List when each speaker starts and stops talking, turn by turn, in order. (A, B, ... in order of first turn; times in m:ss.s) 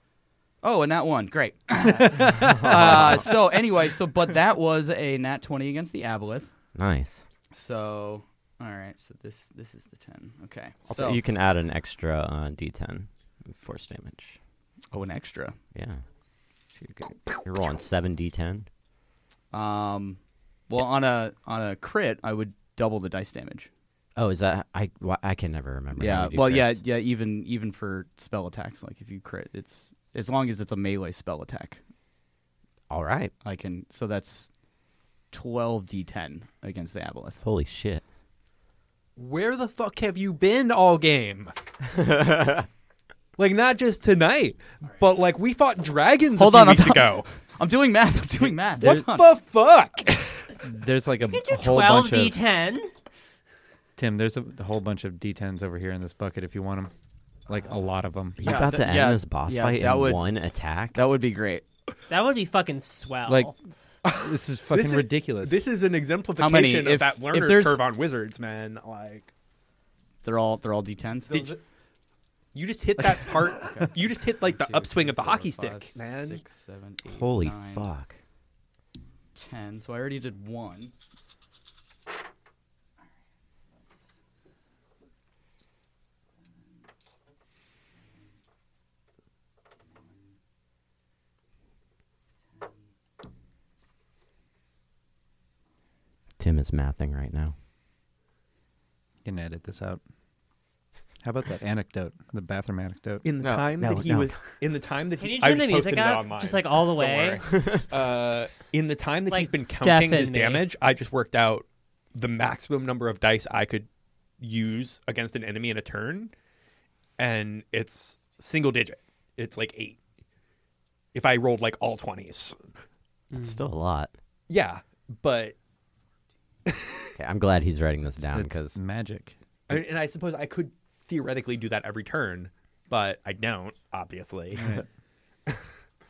0:00.6-0:06.5 A
0:02.5-0:03.3 B
0:06.7-0:07.2 B
0:07.5-0:11.2 A
0:10.9-0:14.4 B
0:14.9-0:15.6 A
0:15.7-0:16.0 B
0:16.8-0:18.7 B
0:19.5-0:23.7 A
0:24.2-0:26.8 B
0:25.9-0:31.8 A
0:32.9-0:33.3 B
0:33.4-0:34.5 A
0:35.3-0:37.4 A
0:37.4-0:38.0 B
0:39.2-0:41.5 C
0:42.0-0:42.7 B
0:43.4-0:47.3 C
0:46.4-0:49.3 A
0:48.8-0:49.0 D
0:48.8-0:50.5 C
0:50.5-0:52.4 D
0:51.3-0:52.9 E
0:54.0-0:56.9 D
0:57.5-0:58.4 D
0:58.4-1:01.0 B
0:58.4-0:58.8 C
0:58.4-1:00.3 A
1:00.9-1:01.6 A
1:02.1-1:03.5 E
1:03.2-1:05.6 D
1:04.0-1:09.3 C
1:06.4-1:07.8 A
1:10.2-1:11.6 A
1:11.3-1:11.6 C
1:12.5-1:16.4 C
1:13.3-1:17.9 A
1:17.1-1:18.2 B
1:19.3-1:20.9 A
1:29.9-1:30.2 A
1:36.4-1:37.5 B
1:39.2-1:40.0 D
1:41.2-1:43.2 D
1:43.2-1:53.9 C
1:43.4-1:44.4 B
1:45.2-1:47.6 E
1:47.5-1:47.8 B
1:49.3-1:50.7 E
1:54.4-1:56.3 C
1:57.2-2:00.0 C
2:01.1-2:02.6 C
2:03.3-2:03.6 E
2:03.3-2:04.1 B
2:04.5-2:05.6 C
2:06.7-2:07.0 C
2:07.2-2:08.8 B
2:08.2-2:09.3 D
2:09.7-2:14.8 C
2:14.6-2:14.8 D